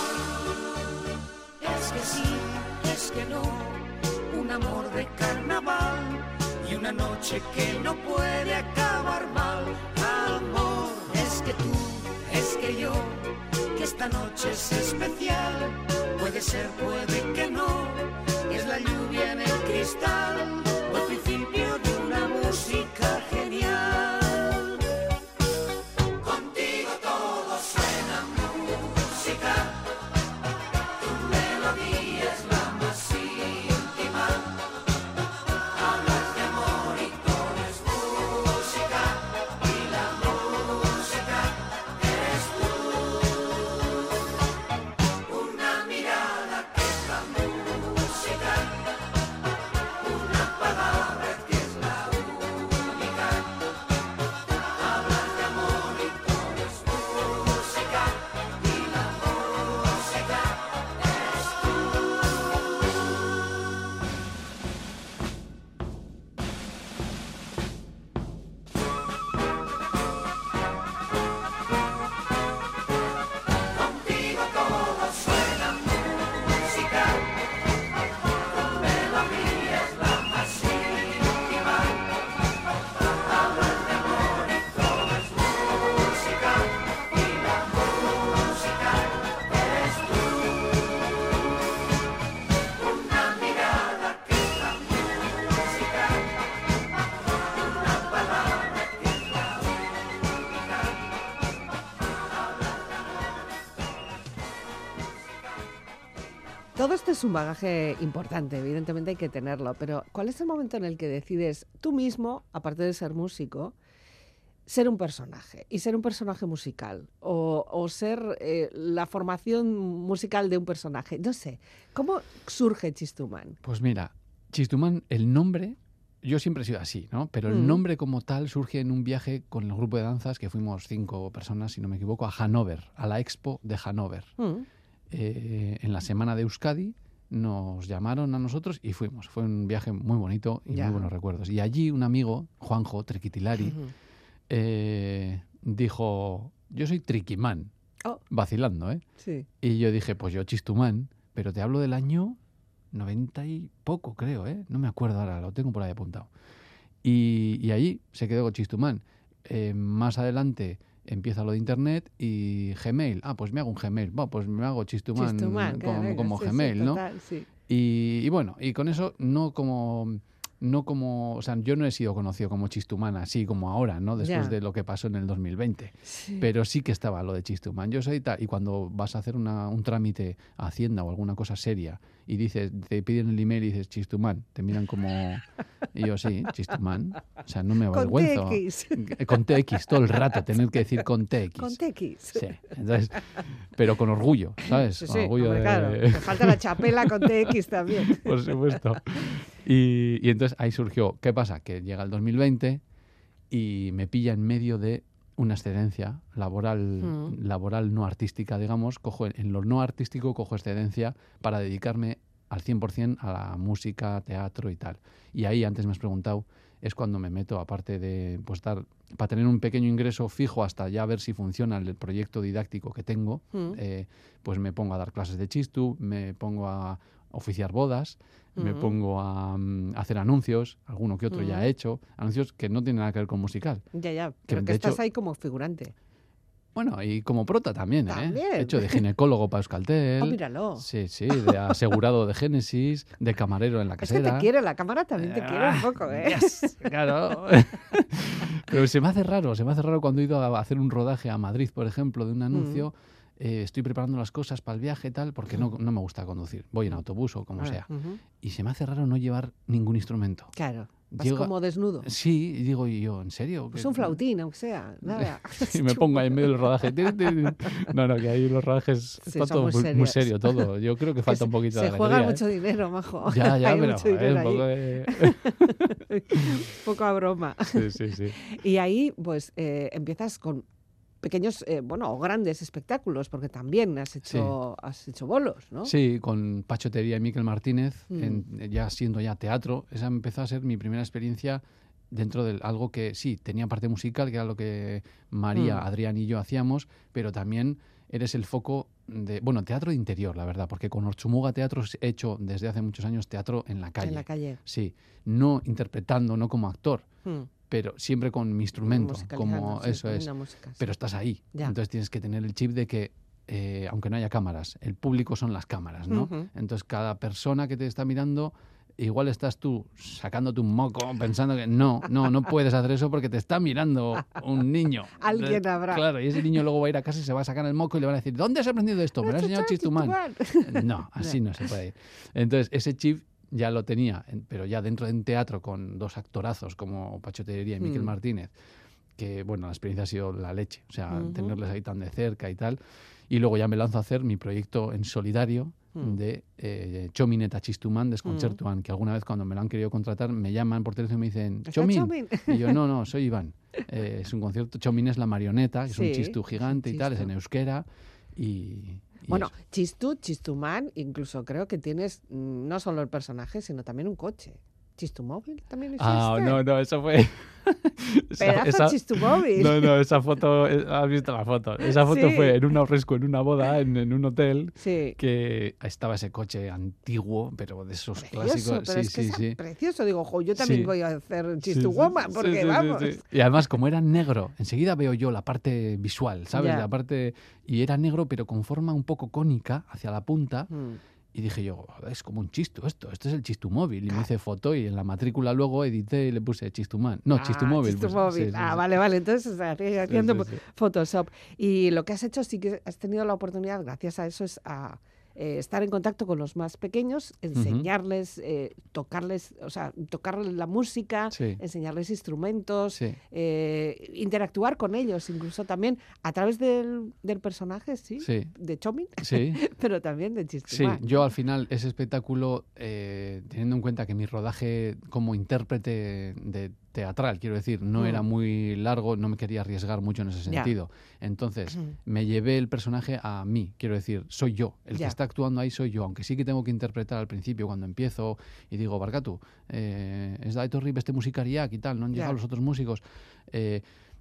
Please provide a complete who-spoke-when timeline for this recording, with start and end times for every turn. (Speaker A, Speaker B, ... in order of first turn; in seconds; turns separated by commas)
Speaker A: 1.6-24.7, Speaker A: 26.2-29.6, Speaker A: 31.0-34.0, Speaker A: 35.9-39.0, Speaker A: 39.9-41.2, Speaker A: 42.1-42.7, Speaker A: 45.3-48.3, Speaker A: 50.3-52.0, Speaker A: 55.1-56.4, Speaker A: 79.4-79.9, Speaker B: 106.8-113.8, Speaker B: 114.7-123.6, Speaker C: 123.6-134.3, Speaker B: 127.5-127.8, Speaker B: 134.4-134.7, Speaker C: 135.1-143.8, Speaker B: 140.7-141.1, Speaker B: 143.6-143.9, Speaker C: 144.5-147.7, Speaker C: 148.3-149.0, Speaker B: 149.2-149.5, Speaker C: 149.6-152.4, Speaker C: 152.9-156.3, Speaker C: 157.0-167.0, Speaker B: 165.2-167.5, Speaker C: 167.7-191.8, Speaker B: 174.2-174.6, Speaker B: 176.1-176.5, Speaker B: 187.9-189.3, Speaker B: 191.6-192.5, Speaker C: 192.3-202.8, Speaker B: 194.7-199.3, Speaker C: 203.5-233.8, Speaker B: 207.0-207.3, Speaker B: 223.5-223.8, Speaker B: 228.6-228.9, Speaker B: 231.3-231.7, Speaker B: 233.9-235.9, Speaker C: 234.5-235.0, Speaker C: 236.8-244.5, Speaker B: 238.1-239.0, Speaker B: 240.2-240.9, Speaker B: 244.0-246.8, Speaker C: 245.2-260.5, Speaker B: 252.5-252.8, Speaker B: 257.6-258.2, Speaker B: 260.6-262.1, Speaker C: 261.1-264.2, Speaker B: 263.7-267.7, Speaker C: 265.1-272.4, Speaker B: 269.2-270.7, Speaker B: 271.3-277.9, Speaker C: 273.2-276.4, Speaker C: 277.7-278.4, Speaker B: 278.4-280.6, Speaker B: 281.2-285.9, Speaker C: 284.2-284.5, Speaker C: 285.9-307.1, Speaker B: 288.1-288.4, Speaker B: 295.5-295.8, Speaker B: 304.0-304.6, Speaker C: 307.7-338.5, Speaker B: 308.9-310.9, Speaker B: 316.1-316.5, Speaker B: 325.2-326.6, Speaker B: 329.2-331.7, Speaker B: 337.8-338.1, Speaker C: 339.2-342.8, Speaker B: 341.1-341.6, Speaker C: 343.3-359.5, Speaker B: 348.2-348.6, Speaker B: 351.7-352.8, Speaker B: 355.9-357.3, Speaker B: 359.3-366.6, Speaker C: 366.0-379.6, Speaker B: 368.4-369.9, Speaker B: 371.8-372.6, Speaker B: 374.8-375.2, Speaker B: 378.2-383.2, Speaker C: 380.6-380.9, Speaker C: 381.6-390.7, Speaker B: 386.5-386.9, Speaker B: 390.7-391.0, Speaker C: 391.3-398.9, Speaker B: 397.3-421.0, Speaker C: 400.1-400.6, Speaker C: 407.6-407.9, Speaker C: 411.3-411.6, Speaker C: 418.2-418.5, Speaker C: 419.2-419.6, Speaker C: 420.7-443.8, Speaker B: 428.0-428.2